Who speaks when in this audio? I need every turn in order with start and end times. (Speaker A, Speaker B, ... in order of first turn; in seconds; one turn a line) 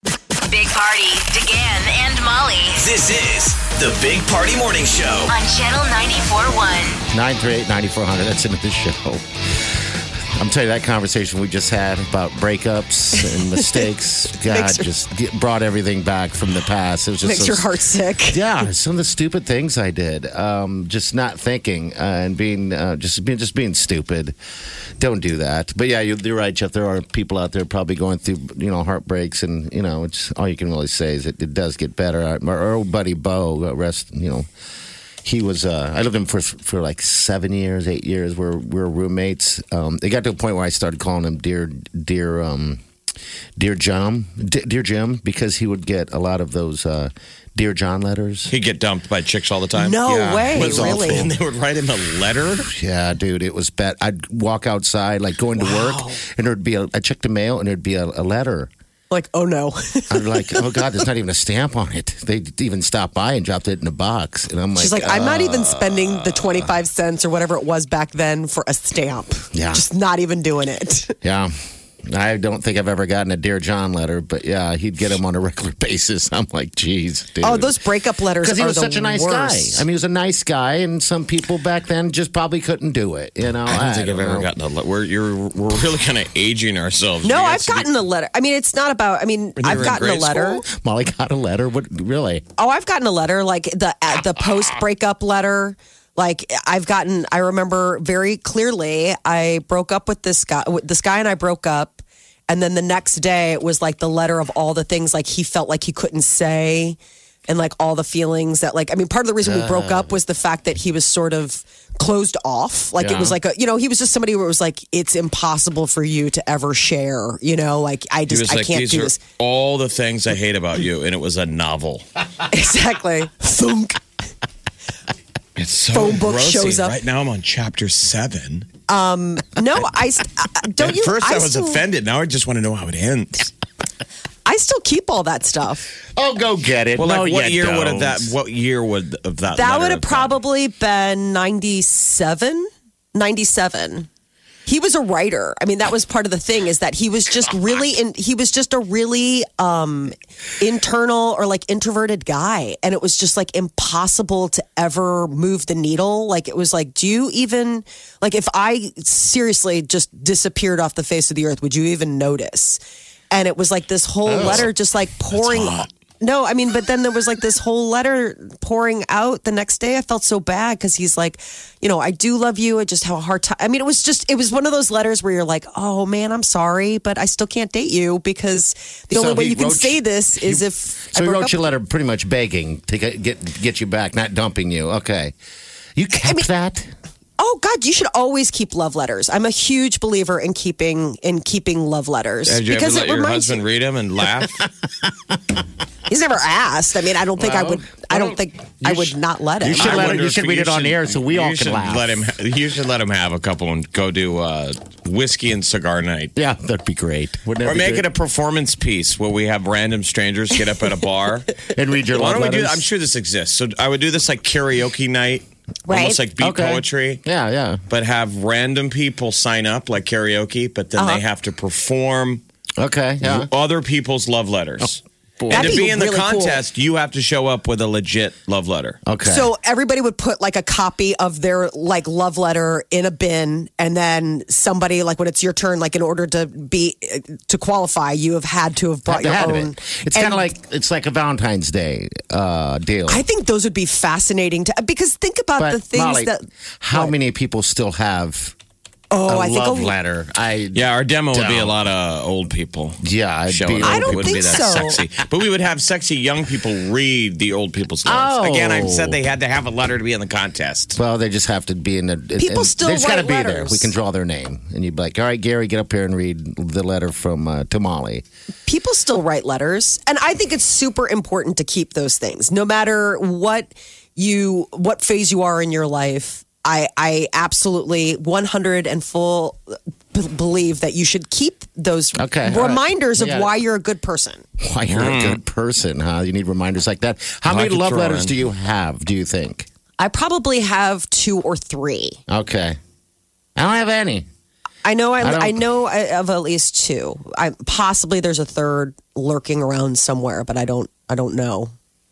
Speaker A: 0.4-2.9
Speaker B: 2.8-5.3
Speaker A: 5.2-7.0
Speaker C: 7.1-9.8
Speaker C: 10.4-17.7
Speaker D: 13.2-13.8
Speaker D: 14.4-14.9
Speaker D: 17.2-18.4
Speaker C: 18.3-24.3
Speaker C: 25.0-34.5
Speaker C: 35.2-42.8
Speaker C: 43.6-48.5
Speaker E: 48.5-52.7
Speaker D: 49.7-51.2
Speaker C: 50.0-51.3
Speaker C: 52.7-58.7
Speaker D: 55.6-56.2
Speaker D: 59.1-60.9
Speaker C: 60.1-66.7
Speaker D: 64.8-71.2
Speaker C: 69.5-69.8
Speaker C: 71.2-71.5
Speaker C: 72.0-77.8
Speaker D: 77.4-79.8
Speaker C: 78.4-84.5
Speaker E: 83.7-87.9
Speaker D: 87.2-90.6
Speaker E: 89.6-90.6
Speaker C: 89.7-90.0
Speaker C: 90.6-92.4
Speaker D: 92.6-107.0
Speaker D: 107.5-119.2
Speaker C: 109.4-110.1
Speaker C: 113.0-113.4
Speaker E: 118.3-122.1
Speaker D: 122.5-124.0
Speaker E: 125.5-128.7
Speaker D: 125.9-127.0
Speaker D: 128.9-131.8
Speaker E: 130.8-133.5
Speaker D: 134.4-135.9
Speaker C: 136.1-138.3
Speaker E: 137.0-140.4
Speaker D: 139.5-144.1
Speaker D: 144.7-181.7
Speaker C: 164.2-164.7
Speaker E: 164.4-164.7
Speaker E: 165.3-165.9
Speaker C: 179.1-185.3
Speaker C: 185.9-186.9
Speaker D: 187.4-193.6
Speaker E: 192.4-194.7
Speaker D: 196.1-200.1
Speaker C: 197.4-202.2
Speaker E: 199.7-206.3
Speaker C: 206.3-208.1
Speaker E: 207.6-211.5
Speaker C: 211.7-212.8
Speaker E: 212.1-217.2
Speaker D: 215.9-216.2
Speaker C: 216.4-217.8
Speaker E: 217.9-222.4
Speaker D: 220.9-221.2
Speaker C: 222.8-223.5
Speaker E: 223.2-229.0
Speaker C: 224.8-225.9
Speaker D: 225.5-226.6
Speaker C: 229.0-229.5
Speaker D: 229.2-240.5
Speaker C: 239.1-243.2
Speaker D: 243.1-247.1
Speaker C: 245.6-248.6
Speaker D: 249.1-249.9
Speaker C: 249.2-251.8
Speaker E: 250.7-261.0
Speaker C: 253.0-254.9
Speaker D: 253.8-255.0
Speaker C: 258.0-259.2
Speaker C: 260.9-268.2
Speaker D: 262.4-263.9
Speaker D: 268.6-284.4
Speaker C: 282.1-283.5
Speaker C: 284.6-289.7
Speaker E: 284.9-285.4
Speaker E: 287.4-288.3
Speaker D: 290.0-292.2
Speaker C: 292.3-292.8
Speaker C: 293.6-294.3
Speaker D: 294.8-301.7
Speaker C: 295.2-295.6